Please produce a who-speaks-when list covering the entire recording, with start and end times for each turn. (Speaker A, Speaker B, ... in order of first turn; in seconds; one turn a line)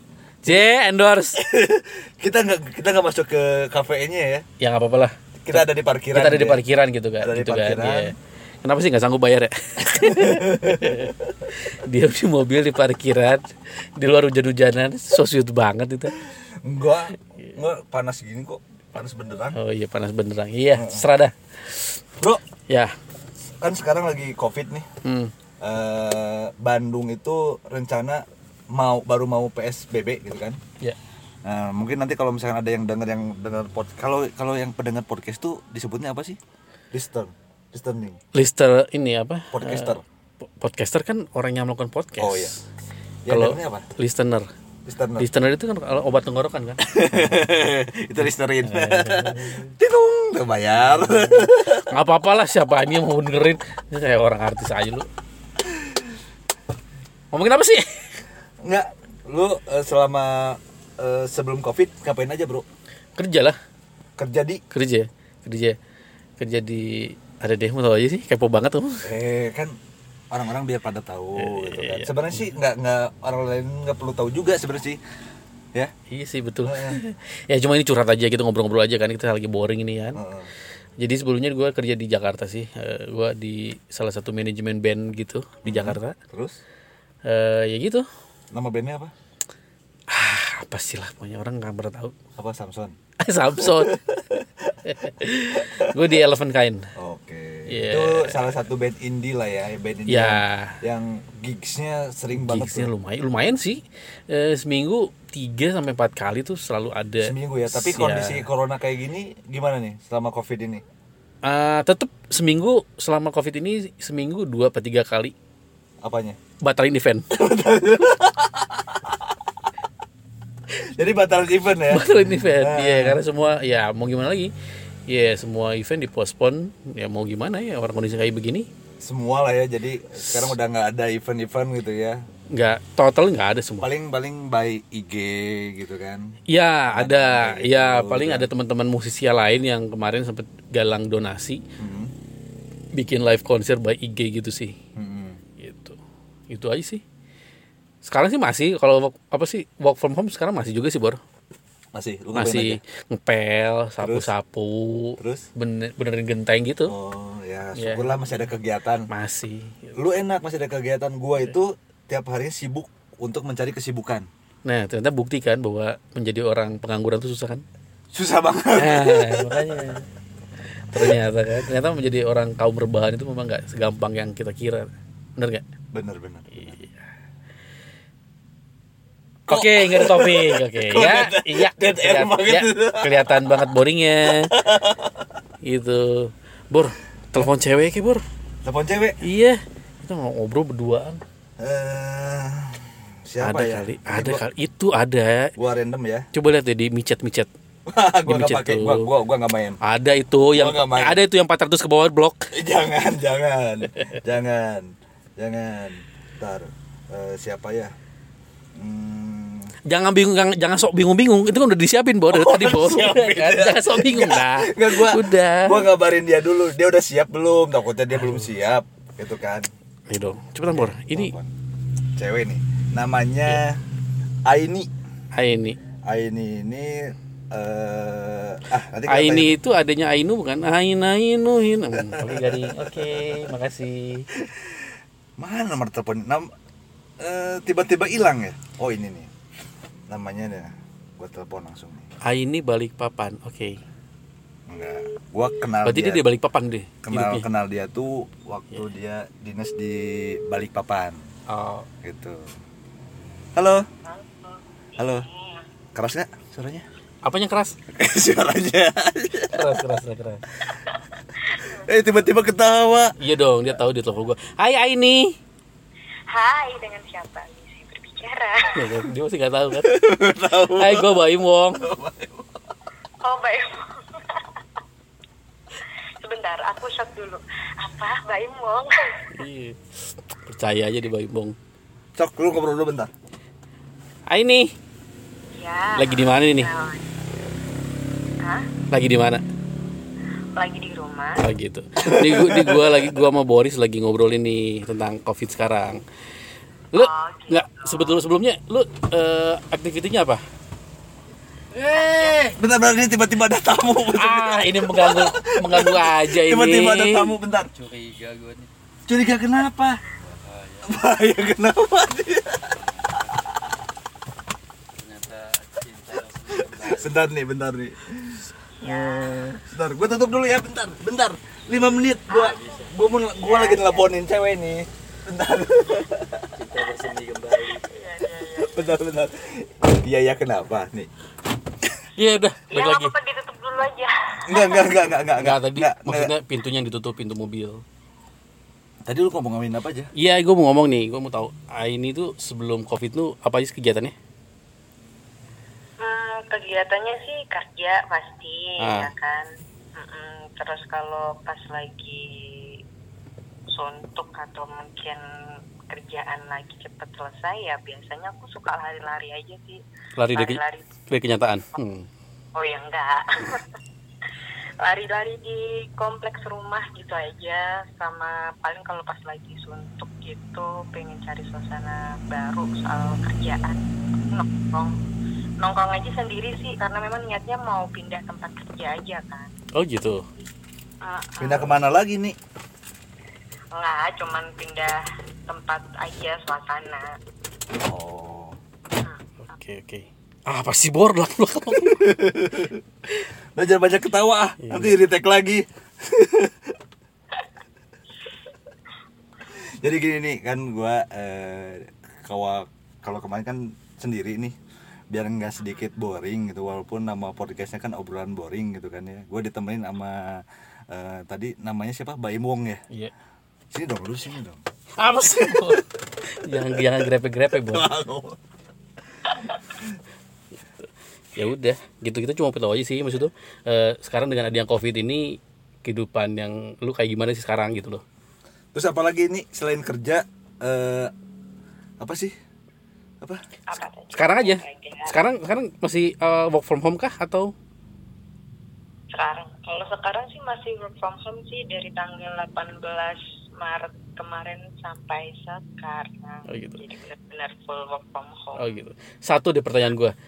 Speaker A: 0.4-1.4
Speaker B: 1.3-4.4
Speaker A: 4.6-16.1
Speaker B: 5.4-6.6
Speaker B: 7.2-8.1
Speaker B: 9.9-11.1
Speaker B: 16.6-19.6
Speaker A: 19.5-22.0
Speaker B: 20.7-21.1
Speaker B: 23.6-24.9
Speaker A: 25.0-25.3
Speaker B: 25.6-30.6
Speaker B: 31.4-36.4
Speaker B: 36.9-38.2
Speaker A: 38.3-42.6
Speaker B: 39.5-40.0
Speaker B: 42.2-42.5
Speaker B: 43.2-43.9
Speaker A: 43.3-44.5
Speaker B: 44.9-45.3
Speaker A: 45.2-47.5
Speaker B: 46.8-51.9
Speaker A: 48.6-49.7
Speaker A: 50.9-55.1
Speaker A: 57.3-58.2
Speaker B: 58.6-62.6
Speaker A: 63.1-63.6
Speaker B: 64.2-64.6
Speaker A: 64.7-65.8
Speaker A: 66.4-69.1
Speaker B: 69.0-69.7
Speaker B: 70.3-75.0
Speaker A: 71.3-72.5
Speaker A: 76.1-80.2
Speaker B: 76.6-77.0
Speaker B: 80.1-80.5
Speaker A: 81.0-86.2
Speaker B: 85.6-86.6
Speaker A: 87.2-88.0
Speaker B: 88.5-89.1
Speaker A: 90.1-92.1
Speaker B: 92.4-92.9
Speaker A: 93.2-94.0
Speaker B: 93.6-94.5
Speaker A: 94.8-96.8
Speaker B: 95.5-96.1
Speaker B: 97.0-102.9
Speaker A: 97.7-98.4
Speaker A: 100.1-100.8
Speaker A: 102.3-108.4
Speaker B: 107.2-110.8
Speaker A: 111.4-115.3
Speaker B: 116.0-116.4
Speaker A: 116.6-117.3
Speaker B: 117.3-119.2
Speaker B: 120.7-123.2
Speaker A: 121.9-124.5
Speaker A: 125.1-128.7
Speaker B: 129.0-132.2
Speaker A: 130.2-130.5
Speaker A: 132.5-133.9
Speaker B: 133.8-136.4
Speaker A: 136.5-141.6
Speaker B: 136.9-138.5
Speaker B: 141.8-142.1
Speaker A: 142.9-144.7
Speaker B: 144.9-145.4
Speaker A: 145.6-146.0
Speaker A: 146.5-147.0
Speaker A: 148.0-151.2
Speaker B: 151.9-152.8
Speaker A: 152.3-156.9
Speaker B: 154.0-154.3
Speaker B: 155.2-155.5
Speaker B: 156.8-159.1
Speaker A: 157.7-158.4
Speaker A: 159.1-160.0
Speaker B: 159.9-164.2
Speaker A: 164.6-167.6
Speaker B: 168.1-169.6
Speaker A: 168.8-170.1
Speaker A: 170.9-175.6
Speaker B: 175.9-176.7
Speaker A: 176.5-176.9
Speaker B: 179.5-183.5
Speaker A: 179.5-184.6
Speaker B: 184.3-185.1
Speaker A: 185.6-188.2
Speaker B: 188.6-189.2
Speaker A: 189.2-191.2
Speaker B: 191.6-194.4
Speaker A: 193.4-195.5
Speaker B: 195.6-196.3
Speaker A: 196.3-197.5
Speaker B: 197.9-199.8
Speaker A: 198.2-199.1
Speaker A: 199.8-202.5
Speaker B: 200.5-201.2
Speaker B: 202.5-207.9
Speaker B: 208.8-209.7
Speaker A: 209.8-215.8
Speaker B: 212.3-219.7
Speaker A: 218.1-218.5
Speaker A: 220.1-221.3
Speaker B: 220.7-221.5
Speaker B: 222.2-223.8
Speaker B: 224.4-224.9
Speaker A: 225.3-225.8
Speaker B: 226.1-229.6
Speaker A: 229.1-234.3
Speaker B: 232.0-233.2
Speaker B: 235.4-236.5
Speaker B: 237.2-239.3
Speaker B: 240.1-242.1
Speaker A: 242.2-243.8
Speaker B: 244.7-246.3
Speaker A: 245.8-247.4
Speaker B: 247.0-251.2
Speaker A: 251.5-251.9
Speaker B: 252.0-252.5
Speaker B: 253.6-253.8
Speaker C: 254.1-255.6
Speaker B: 255.0-255.3
Speaker B: 255.9-256.9
Speaker A: 257.2-257.8
Speaker B: 257.9-259.8
Speaker A: 259.5-260.4
Speaker C: 261.5-261.8
Speaker B: 261.7-263.1
Speaker A: 263.2-265.4
Speaker C: 266.3-268.8
Speaker A: 268.8-270.0
Speaker B: 269.8-271.1
Speaker A: 270.5-271.9
Speaker B: 271.8-272.4
Speaker C: 273.2-274.4
Speaker C: 276.2-278.9
Speaker A: 279.3-281.6
Speaker B: 282.2-283.1
Speaker A: 284.3-284.7
Speaker C: 285.6-287.1
Speaker A: 286.0-286.7
Speaker A: 288.9-289.4
Speaker C: 290.6-291.4
Speaker A: 291.4-296.0
Speaker B: 292.0-293.1
Speaker A: 296.9-300.4
Speaker C: 296.9-298.2
Speaker C: 301.9-302.5
Speaker B: 302.5-307.7
Speaker A: 304.1-307.3
Speaker D: 307.8-308.7
Speaker B: 309.1-310.0
Speaker D: 310.5-310.9
Speaker B: 310.8-312.8
Speaker D: 312.9-313.5
Speaker D: 315.0-317.1
Speaker B: 316.7-326.4
Speaker C: 318.7-319.5
Speaker C: 322.3-324.1
Speaker D: 326.6-327.8
Speaker C: 327.8-328.9
Speaker B: 328.6-331.1
Speaker A: 332.1-333.1
Speaker C: 332.7-335.0
Speaker B: 334.4-336.3
Speaker A: 335.4-337.8
Speaker B: 339.1-340.1
Speaker A: 340.1-344.1
Speaker C: 346.0-352.8
Speaker A: 348.8-349.1
Speaker C: 353.7-355.2
Speaker C: 355.9-359.8
Speaker A: 360.1-360.6
Speaker C: 360.3-360.9
Speaker A: 361.1-362.1
Speaker C: 362.5-363.6
Speaker C: 364.8-374.9
Speaker C: 375.6-379.5
Speaker A: 379.7-380.2
Speaker C: 381.0-381.8
Speaker B: 381.4-382.4
Speaker C: 383.8-387.0
Speaker B: 387.8-388.6
Speaker A: 389.5-392.1
Speaker B: 391.7-392.8
Speaker B: 393.6-396.6
Speaker A: 394.6-395.0
Speaker B: 399.5-404.5
Speaker B: 405.1-412.8
Speaker B: 413.7-414.6
Speaker A: 415.0-417.9
Speaker B: 416.6-416.9
Speaker B: 417.5-418.4
Speaker A: 421.4-428.0
Speaker B: 428.7-431.1
Speaker B: 432.0-432.3
Speaker C: 433.7-435.1
Speaker A: 434.1-437.5
Speaker C: 439.1-448.8
Speaker A: 446.5-446.8
Speaker A: 448.6-450.1